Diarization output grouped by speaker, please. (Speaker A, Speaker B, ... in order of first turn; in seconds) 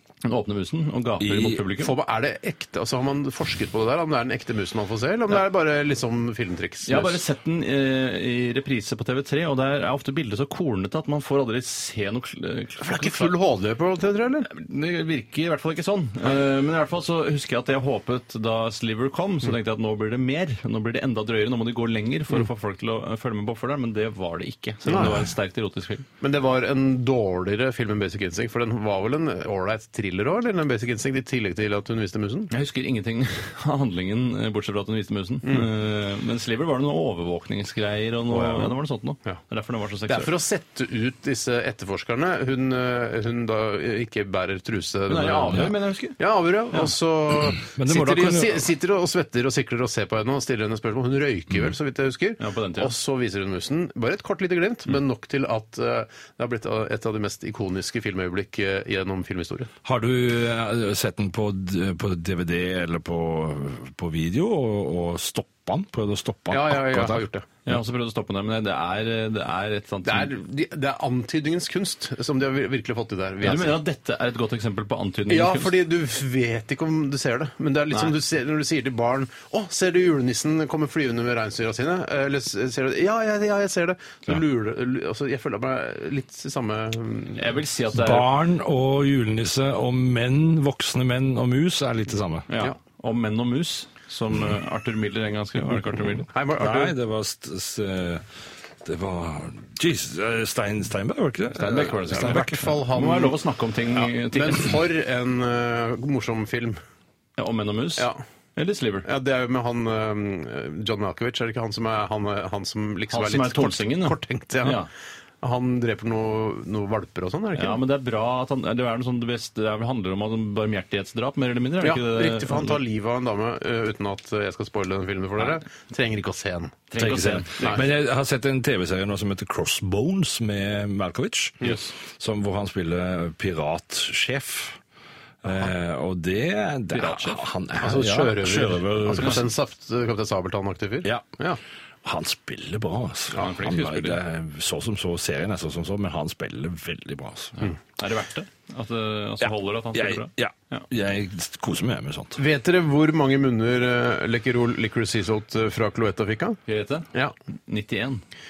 Speaker A: 0.2-1.9, 6.8-13.3, 14.4-26.1, 32.5-40.3, 45.1-46.2, 52.4-52.9, 67.7-70.3, 73.4-75.7, 77.9-78.2, 87.4-88.3, 92.5-96.2, 101.5-104.8, 107.4-109.1, 113.1-114.9, 117.5-122.8, 126.9-127.8, 131.6-131.9, 136.9-137.4, 143.3-144.2, 147.6-150.9, 156.7-157.1, 157.7-158.2
Speaker B: 1.2-1.6, 47.6-48.7, 59.8-67.2, 87.9-92.5, 96.6-98.2, 98.8-102.6, 127.0-134.8, 135.4-139.5, 142.0-147.5, 149.4-152.4
Speaker C: 1.8-7.2, 12.8-14.5, 24.8-25.2, 26.2-32.5, 35.4-35.7, 38.3-39.4, 40.1-59.7, 66.5-67.5, 70.0-73.8, 75.3-87.5, 96.3-96.9, 102.1-103.4, 103.9-106.8, 109.0-114.8, 115.4-117.8, 121.8-127.8, 137.8-141.6, 152.4-156.6